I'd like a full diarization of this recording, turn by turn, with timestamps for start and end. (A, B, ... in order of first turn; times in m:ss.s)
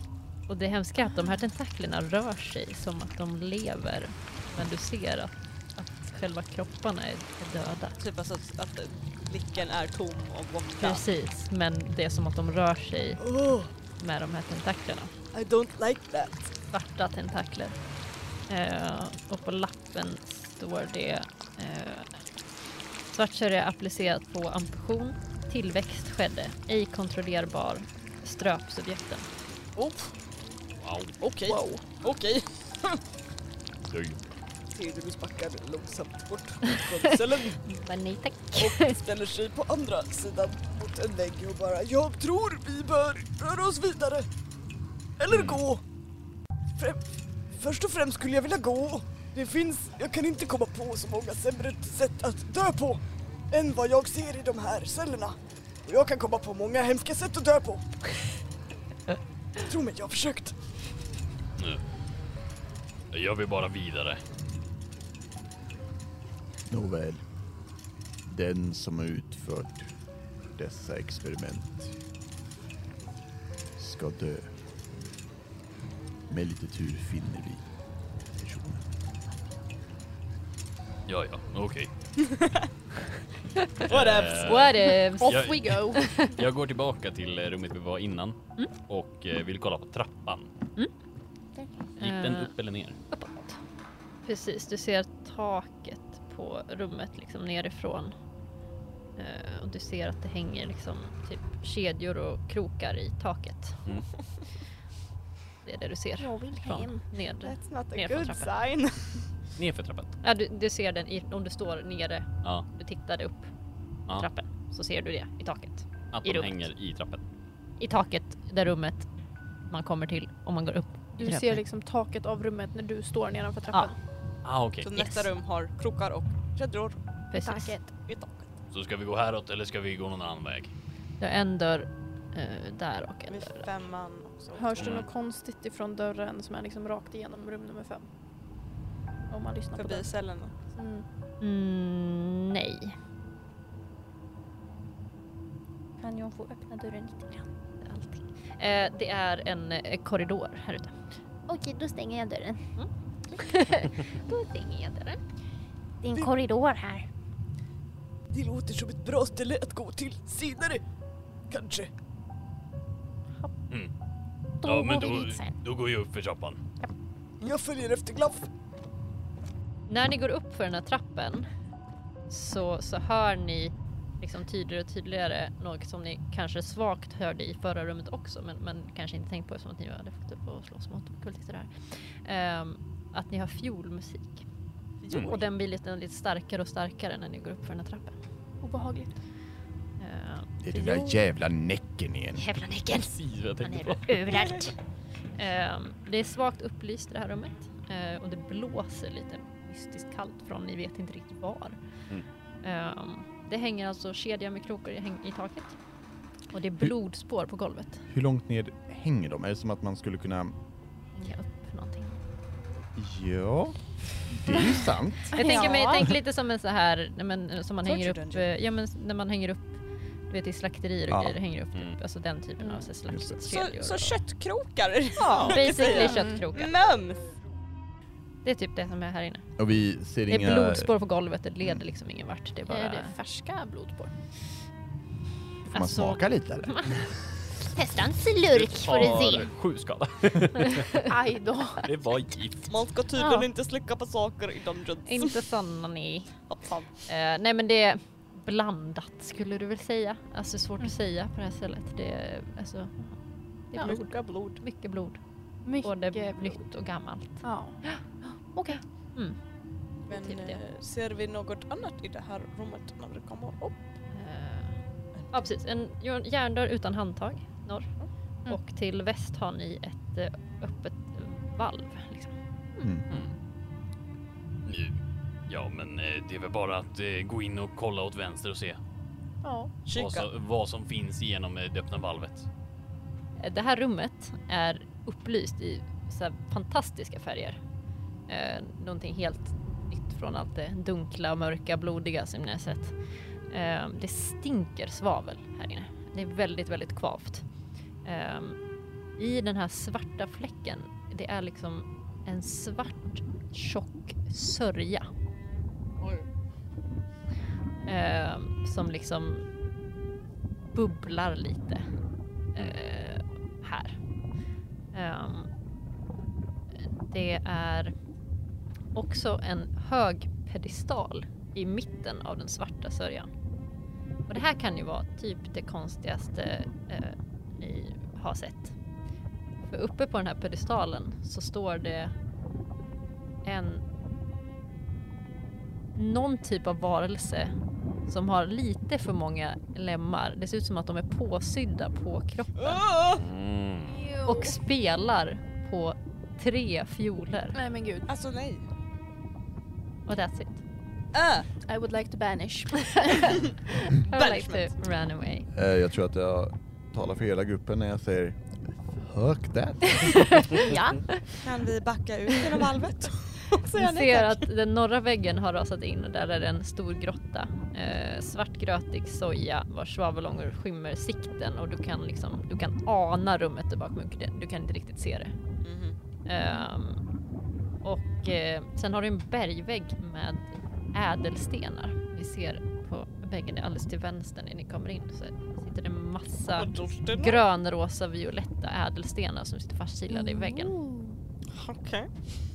0:00.5-0:08.0 A
0:08.0-0:11.0 B
0:10.8-0:13.2 A
0:13.2-0:13.7 C
0:14.0-0:15.1 A
0:15.3-0:16.5 C
0:16.7-0:17.8 A
0:18.5-0:22.1 A
0:23.1-0:29.3 A
0:29.8-0:30.1 C
0:30.8-0:31.2 D
0:31.2-0:33.0 B
0:33.9-0:34.2 D
0:34.7-0:37.6 C
0:37.6-0:39.0 A
0:38.6-0:44.3 C
0:45.2-0:45.8 C
0:45.3-0:45.6 D
0:46.8-0:58.0 C
0:59.6-1:00.6 C
1:03.1-1:04.2 D
1:06.7-1:07.2 E
1:08.3-1:09.9 E
1:10.6-1:12.0 E
1:13.8-1:14.5 E
1:16.3-1:17.6 E
1:18.4-1:18.8 E
1:21.1-1:21.9 D
1:22.2-1:22.6 B
1:23.8-1:24.8 B
1:23.9-1:30.5 D
1:24.4-1:26.4 A
1:25.0-1:26.2 F
1:32.0-1:32.5 A
1:32.0-1:33.0 D
1:33.1-1:33.6 A
1:34.2-1:38.1 A
1:39.2-1:43.8 A
1:45.6-1:48.5 A
1:46.2-1:47.0 G
1:47.4-1:49.3 B
1:49.6-1:50.2 D
1:50.2-1:53.5 A
1:54.1-1:56.7 A
1:56.1-1:57.2 D
1:57.8-1:59.1 A
1:59.7-2:01.6 A
2:01.2-2:04.0 F
2:04.4-2:05.0 D
2:04.8-2:07.0 B
2:05.0-2:05.3 A
2:07.3-2:07.8 A
2:07.4-2:07.9 F
2:08.0-2:08.5 B
2:08.7-2:10.7 D
2:11.2-2:13.7 A
2:13.3-2:15.1 B
2:14.6-2:18.1 F
2:14.8-2:15.1 D
2:19.3-2:20.1 F
2:19.7-2:20.6 B
2:20.8-2:21.1 F
2:21.4-2:23.0 A
2:26.0-2:27.5 F
2:27.8-2:31.0 A
2:31.5-2:32.6 G
2:32.8-2:35.2 A
2:36.0-2:37.1 G
2:38.3-2:40.8 C
2:41.5-2:41.9 C
2:44.6-2:45.5 G
2:44.6-2:46.6 D
2:47.4-2:48.5 C
2:49.9-2:51.5 A
2:52.3-3:04.5 A
3:05.0-3:05.4 B
3:05.1-3:08.2 A
3:08.6-3:09.2 F
3:10.0-3:10.9 A
3:10.6-3:12.5 E
3:12.4-3:14.8 A
3:12.9-3:14.2 D
3:14.3-3:14.7 B
3:15.4-3:21.8 A
3:22.6-3:25.8 A
3:26.5-3:28.0 A
3:28.1-3:30.5 E
3:31.2-3:32.2 A
3:33.0-3:35.3 E
3:35.3-3:44.2 A
3:35.4-3:35.8 G
3:35.5-3:35.9 B
3:37.8-3:38.5 B
3:41.1-3:41.4 E
3:42.6-3:42.9 F
3:43.1-3:43.4 E
3:43.5-3:47.3 B
3:45.5-3:46.7 A
3:45.8-3:46.4 F
3:48.4-3:49.5 A
3:49.6-3:50.9 E
3:50.3-3:53.2 A
3:52.7-3:54.1 F
3:55.7-3:57.0 E
3:55.7-3:57.0 A
3:57.7-3:59.5 G
3:58.5-4:01.1 D
3:58.9-3:59.4 A
4:00.6-4:01.0 A
4:01.0-4:01.9 F
4:01.8-4:02.7 D
4:02.7-4:05.4 B
4:03.2-4:03.5 A
4:05.1-4:06.3 A
4:06.5-4:06.9 B
4:07.1-4:13.2 A
4:13.7-4:15.2 A
4:13.8-4:14.6 B
4:15.6-4:16.6 F
4:15.8-4:18.0 A
4:17.4-4:17.8 F
4:18.7-4:19.4 A
4:20.1-4:23.8 B
4:20.1-4:20.6 A
4:24.1-4:24.8 A
4:25.3-4:27.9 A
4:28.5-4:32.3 A
4:32.8-4:33.0 E
4:33.1-4:33.4 D
4:34.7-4:38.8 D
4:39.4-4:39.8 F
4:39.8-4:40.3 B
4:39.9-4:42.5 D
4:43.4-4:47.6 A
4:48.3-4:53.0 A
4:53.5-4:57.4 A
4:58.0-4:58.6 A
4:59.2-5:05.1 A
5:07.9-5:09.4 A
5:10.7-5:11.9 A
5:12.6-5:14.0 A
5:14.9-5:15.5 A
5:16.8-5:17.9 A
5:18.9-5:23.3 A
5:24.3-5:28.8 A
5:29.7-5:32.1 A
5:33.4-5:33.8 A
5:36.0-5:37.5 A
5:38.1-5:42.8 A
5:42.6-5:43.2 C
5:43.2-5:44.0 D
5:43.9-5:44.6 F
5:44.2-5:47.6 A
5:47.5-5:48.1 F
5:48.1-5:48.7 B
5:50.1-5:50.6 A
5:51.7-5:53.2 F
5:52.9-5:55.5 A
5:54.1-5:54.7 B
5:55.5-5:58.4 E
5:58.9-6:00.6 E
6:00.6-6:01.0 F
6:01.4-6:04.5 B
6:03.7-6:15.4 A
6:15.6-6:16.0 B
6:16.2-6:17.0 A
6:17.8-6:30.7 A
6:26.6-6:27.4 B
6:30.2-6:31.0 F
6:31.5-6:32.1 B